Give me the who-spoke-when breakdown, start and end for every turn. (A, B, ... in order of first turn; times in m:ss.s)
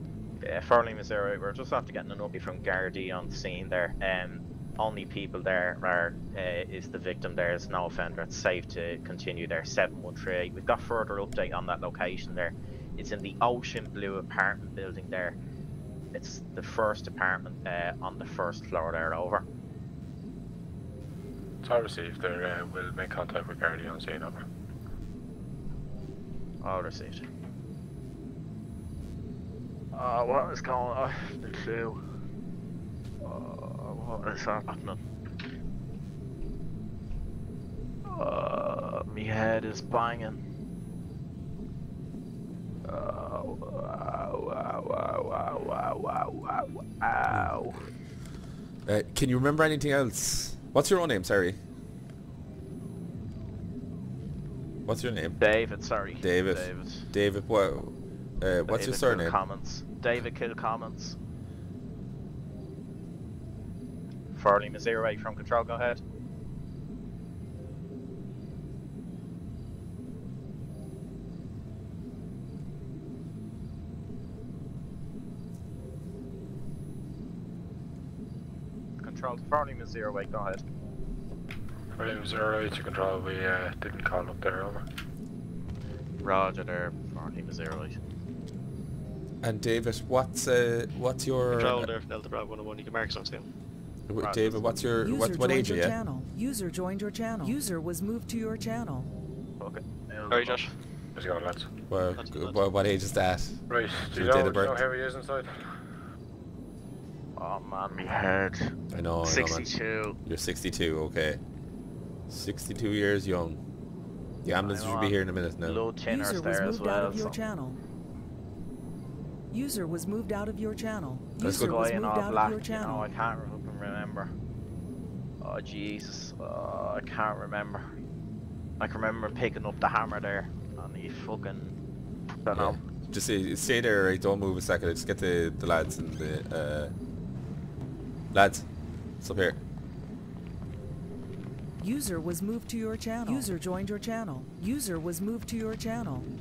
0:00.4-0:15.4 A
0:16.1-0:19.4 A
0:21.6-0:24.4 B
0:26.6-0:27.2 A
0:29.9-0:32.0 A
0:33.2-0:35.0 A
0:38.1-0:40.4 A
0:42.8-0:47.9 A
0:48.9-0:51.6 C
0:54.9-0:55.4 C
0:55.4-0:57.1 A
0:56.2-0:59.4 C
0:58.7-1:01.2 A
1:04.4-1:06.0 A
1:19.0-1:20.6 A
1:22.0-1:24.8 B
1:26.2-1:28.0 A
1:29.4-1:31.9 C
1:31.5-1:33.5 D
1:34.1-1:36.0 C
1:34.2-1:34.6 A
1:35.0-1:39.1 E
1:39.6-1:40.7 A
1:40.3-1:40.7 D
1:41.2-1:41.7 B
1:41.9-1:44.8 C
1:42.2-1:42.6 D
1:43.7-1:45.8 B
1:47.4-1:50.2 A
1:48.9-1:49.7 C
1:50.2-1:51.4 C
1:52.3-1:53.6 C
1:54.4-1:55.8 C
1:54.6-1:57.4 A
1:56.0-1:57.8 E
1:59.5-2:03.1 E
2:01.4-2:01.8 C
2:01.6-2:04.3 A
2:05.4-2:08.0 A
2:08.8-2:11.8 A
2:12.4-2:12.8 A
2:12.5-2:16.9 C
2:18.3-2:18.7 C
2:19.2-2:19.6 C
2:21.8-2:26.3 E